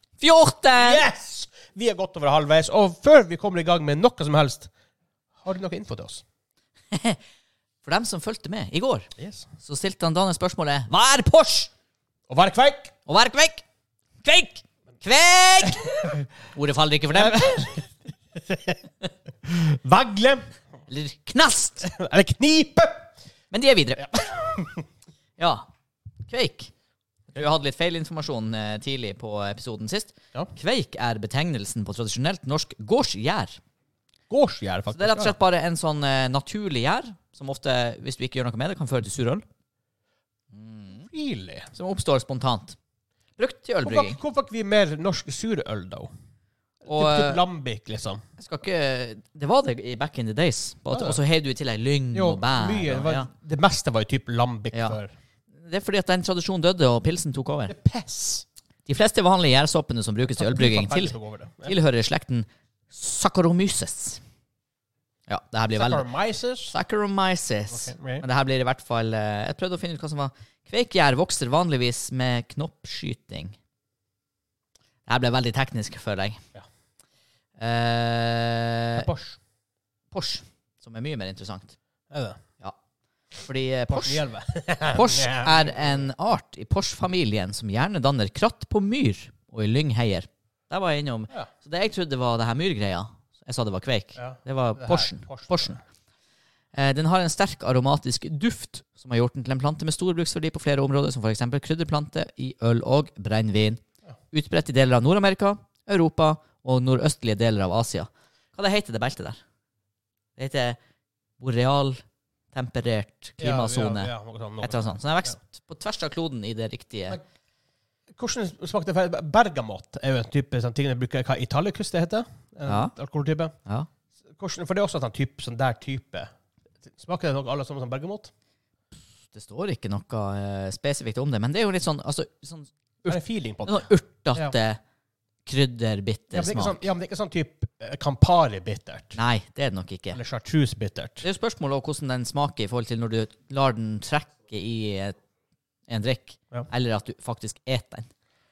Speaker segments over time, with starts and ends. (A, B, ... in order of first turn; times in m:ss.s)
0:00.2-0:01.0 A
0:00.7-0:04.7 B
0:05.4-0:06.2 B
0:06.9-0:07.2 A
0:07.8-0:09.1 A
0:09.2-0:09.5 B
0:09.6-0:11.7 A
0:12.3-0:12.9 B
0:13.0-0:13.6 A
0:14.2-0:17.7 A
0:17.1-0:17.9 B
0:18.5-0:18.8 B
0:19.4-0:20.5 B
0:20.9-0:21.9 A
0:21.8-0:23.1 B
0:23.5-0:24.1 A
0:24.1-0:24.8 B
0:25.4-0:25.7 A
0:26.3-0:26.7 A
0:27.3-0:33.6 A
0:34.3-0:35.4 B
0:34.9-0:39.4 A
0:40.5-0:41.1 A
0:41.1-0:41.7 B
0:41.7-0:42.8 A
0:43.4-0:44.2 A
0:43.8-0:46.1 B
0:46.8-0:47.4 A
0:46.9-0:48.2 B
0:48.4-0:53.3 A
0:50.9-0:51.2 B
0:52.1-0:55.1 B
0:54.7-0:55.0 A
0:55.5-0:57.7 A
0:57.7-0:58.4 B
0:58.9-1:04.2 A
1:00.4-1:01.8 B
1:05.3-1:06.0 A
1:05.8-1:06.7 B
1:06.7-1:13.6 A
1:07.7-1:08.3 B
1:15.1-1:16.4 A
1:17.6-1:19.1 A
1:18.9-1:19.4 B
1:20.1-1:21.8 A
1:22.1-1:22.4 B
1:23.3-1:24.2 A
1:23.9-1:26.1 B
1:24.9-1:35.8 A
1:34.2-1:35.8 B
1:36.8-1:43.8 A
1:44.3-1:49.4 A
1:50.4-1:50.8 A
1:51.4-1:57.2 A
1:53.4-1:55.4 B
1:58.1-2:03.5 B
2:02.7-2:02.9 A
2:04.3-2:06.3 B
2:06.8-2:08.3 B
2:09.3-2:14.8 A
2:13.1-2:14.6 B
2:15.4-2:16.9 A
2:16.3-2:19.2 B
2:19.2-2:20.2 A
2:20.1-2:21.2 B
2:21.2-2:25.2 A
2:25.9-2:28.1 A